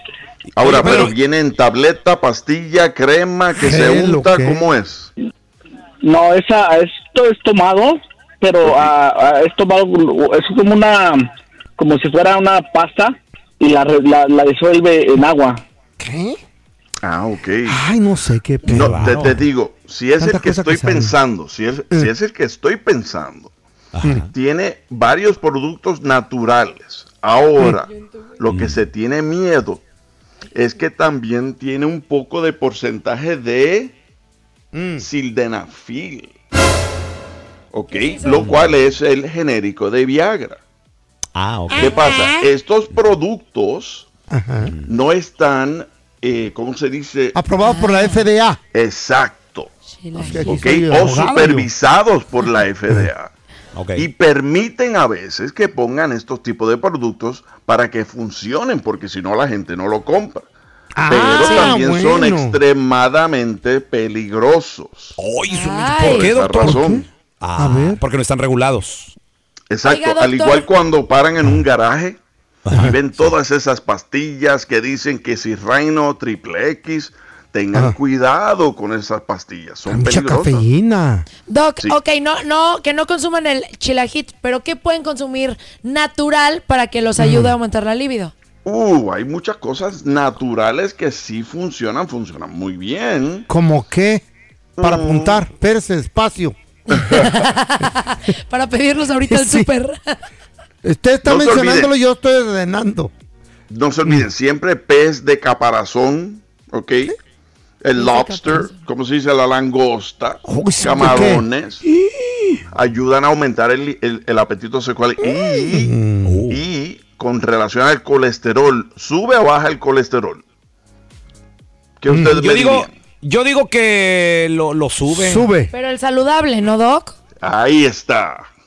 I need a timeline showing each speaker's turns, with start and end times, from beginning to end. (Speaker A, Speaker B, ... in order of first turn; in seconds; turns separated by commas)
Speaker A: 0.5-1.1, Speaker B: 0.6-5.1, Speaker C: 0.8-1.1, Speaker C: 3.5-4.7, Speaker D: 6.0-15.6, Speaker B: 8.6-8.9, Speaker C: 16.0-16.4, Speaker B: 17.0-17.8, Speaker C: 17.7-19.4, Speaker B: 18.7-23.5, Speaker A: 18.7-19.4, Speaker C: 20.2-21.2, Speaker A: 23.9-24.3, Speaker B: 24.3-29.8, Speaker A: 28.5-28.8, Speaker B: 30.5-34.0, Speaker C: 34.7-35.1, Speaker B: 35.0-36.3, Speaker B: 37.7-40.6, Speaker E: 37.9-38.5, Speaker A: 38.3-38.8, Speaker A: 41.4-42.0, Speaker C: 41.7-42.5, Speaker B: 41.7-44.1, Speaker C: 44.3-44.7, Speaker A: 44.6-44.9, Speaker B: 44.9-47.4, Speaker C: 47.4-48.6, Speaker E: 47.6-48.3, Speaker B: 48.7-49.7, Speaker E: 49.9-50.6, Speaker C: 50.1-51.7, Speaker B: 50.3-53.3, Speaker A: 53.8-54.1, Speaker B: 54.0-60.5, Speaker C: 61.0-62.6, Speaker B: 61.1-65.2, Speaker E: 61.4-61.8, Speaker A: 65.2-66.9, Speaker E: 65.5-66.3, Speaker B: 66.0-67.1, Speaker C: 66.6-67.1, Speaker A: 67.4-69.2, Speaker C: 67.6-68.0, Speaker B: 69.7-72.2, Speaker E: 69.8-70.7, Speaker A: 72.7-73.3, Speaker B: 72.7-80.7, Speaker C: 79.9-81.3, Speaker E: 81.5-88.3, Speaker C: 87.2-87.5, Speaker B: 88.7-93.5, Speaker C: 93.5-94.2, Speaker B: 94.8-95.4, Speaker C: 94.8-96.6, Speaker B: 96.9-97.4, Speaker E: 96.9-100.2, Speaker C: 99.3-99.7, Speaker C: 100.8-103.1, Speaker B: 101.2-101.9, Speaker B: 103.7-107.2, Speaker B: 107.8-111.8, Speaker E: 108.0-108.8, Speaker C: 110.5-112.6, Speaker B: 112.7-116.0, Speaker C: 115.2-116.5, Speaker A: 116.2-116.6, Speaker B: 116.5-120.4, Speaker B: 122.0-122.9, Speaker C: 122.1-122.3, Speaker A: 122.3-125.5, Speaker C: 125.1-125.7, Speaker E: 125.7-127.2, Speaker B: 127.4-128.5